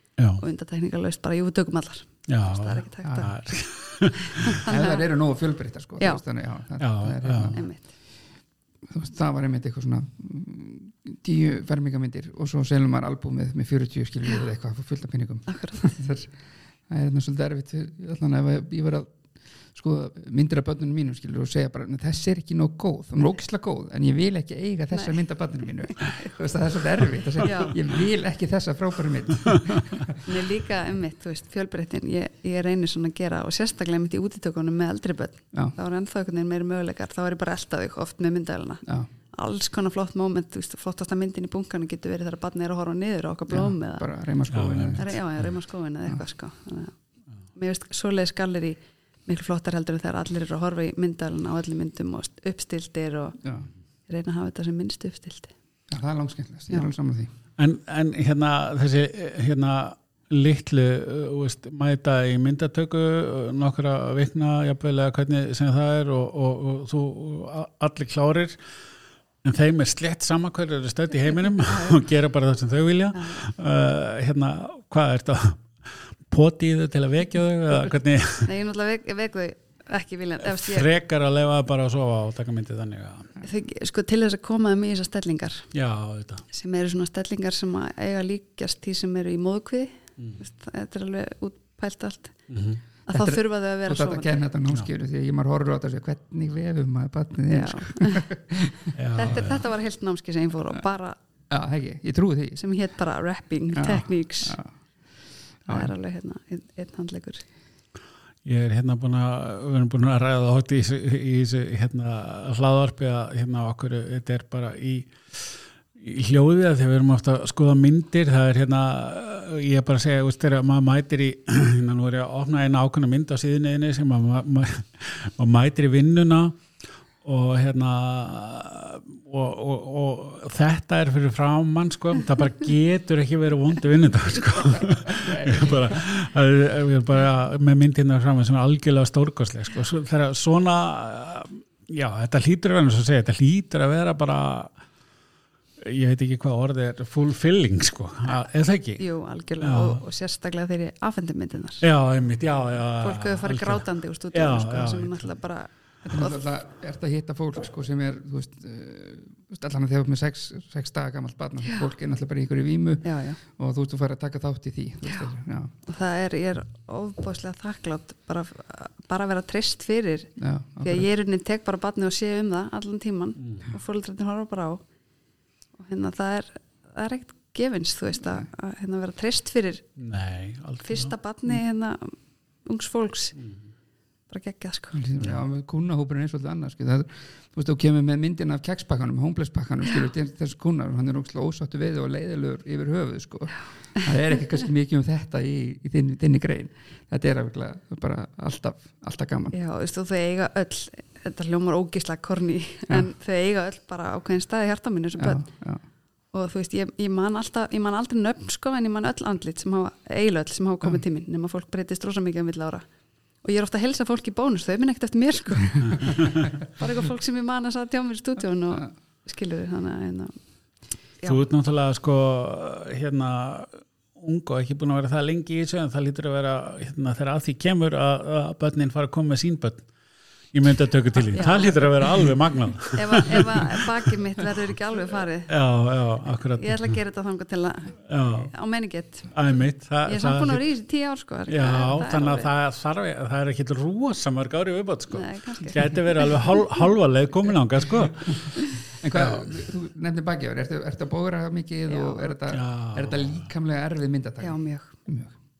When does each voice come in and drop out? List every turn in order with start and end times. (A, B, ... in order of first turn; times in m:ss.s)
0:00.4-0:03.3 A
0:02.3-0:04.6 B
0:04.2-0:05.1 A
0:04.6-0:07.6 C
0:06.8-0:07.6 B
0:07.5-0:07.8 A
0:08.9-0:16.3 C
0:15.5-0:16.0 A
0:16.9-0:19.1 C
0:19.7-0:30.2 C
0:24.9-0:25.2 A
0:25.8-0:26.3 A
0:27.4-0:27.8 A
0:30.2-0:44.1 A
0:43.5-0:45.2 C
0:44.5-0:45.4 B
0:45.0-0:46.9 A
0:47.5-0:53.4 A
0:54.1-0:55.5 A
0:55.9-0:57.3 C
0:57.6-1:08.6 B
1:09.4-1:18.5 B
1:11.7-1:12.0 A
1:13.1-1:13.4 A
1:18.4-1:20.9 A
1:20.4-1:23.4 B
1:23.4-1:25.7 A
1:25.7-1:26.4 B
1:26.5-1:32.4 A
1:32.5-1:32.8 B
1:33.1-1:34.4 A
1:33.1-1:39.6 C
1:37.5-1:38.3 A
1:38.9-1:39.6 B
1:39.1-1:41.2 A
1:41.5-1:42.6 C
1:42.6-1:44.6 A
1:43.7-1:44.7 C
1:45.6-1:45.9 C
1:45.7-1:47.4 A
1:48.4-2:06.6 B
2:07.2-2:24.7 B
2:14.8-2:16.1 C
2:25.8-2:29.0 B
2:29.0-2:31.8 A
2:29.6-2:30.0 B
2:31.8-2:35.3 B
2:33.0-2:36.4 A
2:36.0-2:45.7 C
2:43.0-2:43.4 A
2:45.9-2:54.8 A
2:50.4-2:51.1 C
2:53.4-2:53.6 B
2:55.8-2:59.8 A
3:00.0-3:01.1 B
3:00.8-3:03.4 A
3:04.3-3:05.0 A
3:04.9-3:19.6 C
3:19.5-3:25.4 A
3:25.2-3:25.8 C
3:26.3-3:32.8 A
3:33.4-3:40.3 A
3:36.1-3:36.4 B
3:41.2-3:49.9 B
3:50.5-3:53.9 B
3:51.3-3:51.8 A
3:52.9-3:55.5 A
3:55.5-3:57.0 B
3:56.5-3:59.4 A
3:58.1-3:58.5 B
3:59.3-4:00.6 B
4:00.0-4:02.5 A
4:01.5-4:08.5 B
4:05.1-4:06.8 A
4:09.0-4:15.3 C
4:09.1-4:09.6 B
4:11.9-4:12.3 A
4:12.5-4:13.4 B
4:14.4-4:14.9 A